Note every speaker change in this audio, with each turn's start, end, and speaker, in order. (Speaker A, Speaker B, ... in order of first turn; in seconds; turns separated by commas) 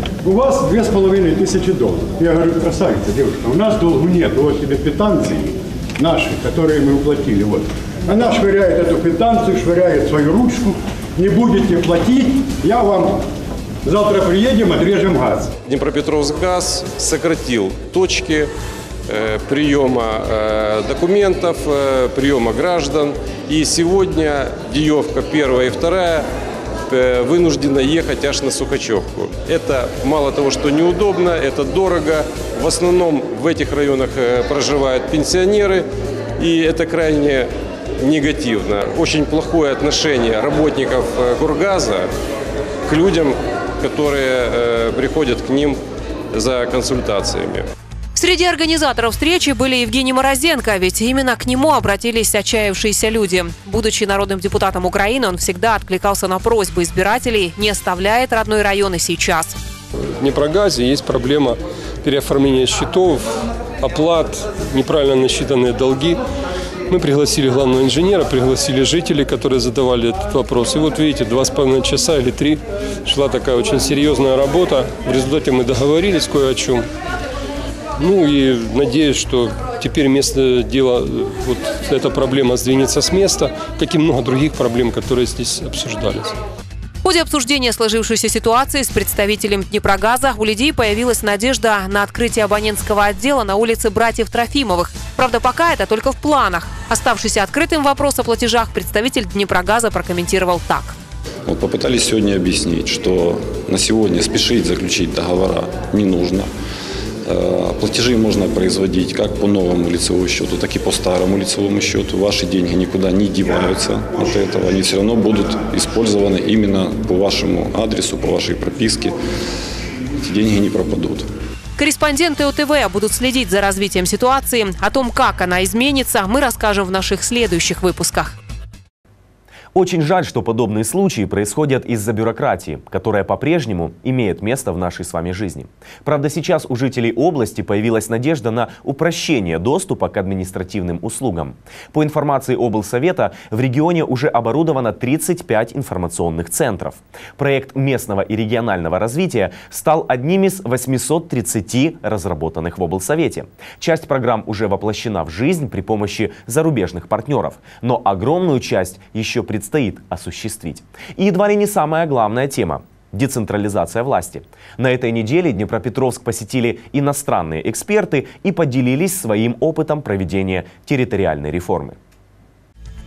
Speaker A: 0.2-13.2, Speaker A: 13.8-15.5, Speaker B: 15.7-18.5, Speaker B: 19.1-26.3, Speaker B: 26.9-42.1, Speaker B: 42.9-45.8, Speaker B: 46.3-47.7, Speaker C: 48.2-59.6, Speaker D: 60.0-63.3, Speaker D: 63.8-66.2, Speaker D: 66.9-76.9, Speaker D: 78.0-86.4, Speaker C: 87.0-101.0, Speaker E: 101.5-106.5, Speaker E: 107.2-119.2, Speaker E: 120.2-121.3, Speaker C: 121.8-128.4, Speaker F: 129.7-172.0